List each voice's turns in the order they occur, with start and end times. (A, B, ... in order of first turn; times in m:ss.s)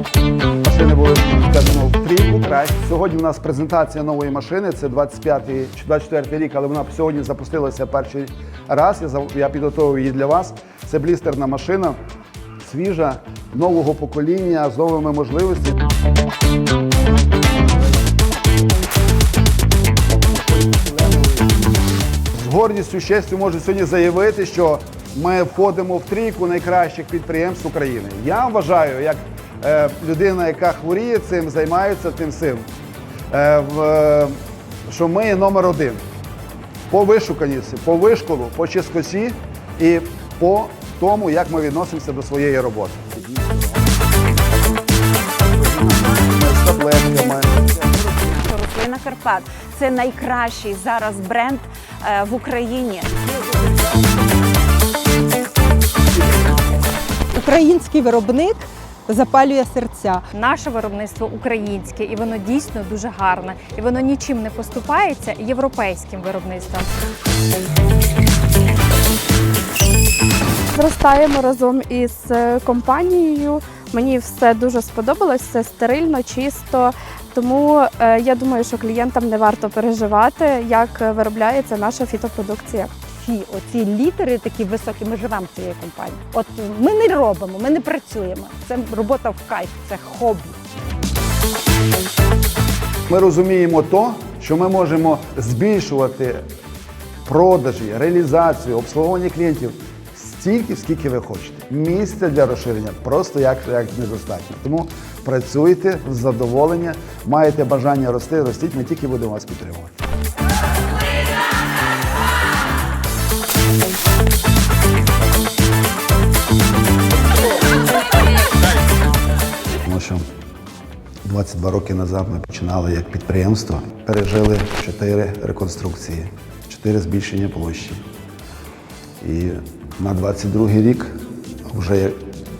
0:00.6-0:11.9 A
0:12.6-0:15.8 A
0:20.5-0:21.5 A
0:22.3-0:32.6 A
0:33.3-0:36.0 A
0:36.9-0:43.8 A
0:45.4-0:48.2 A
0:48.4-0:53.2 B
0:57.3-1:00.2 C
1:00.3-1:06.9 D
1:10.7-1:23.0 E
1:23.1-1:30.6 C
1:33.1-1:36.4 A
1:37.2-1:49.9 A
1:59.8-2:00.2 A
2:01.2-2:08.0 A
2:09.2-2:11.1 A
2:11.7-2:12.2 A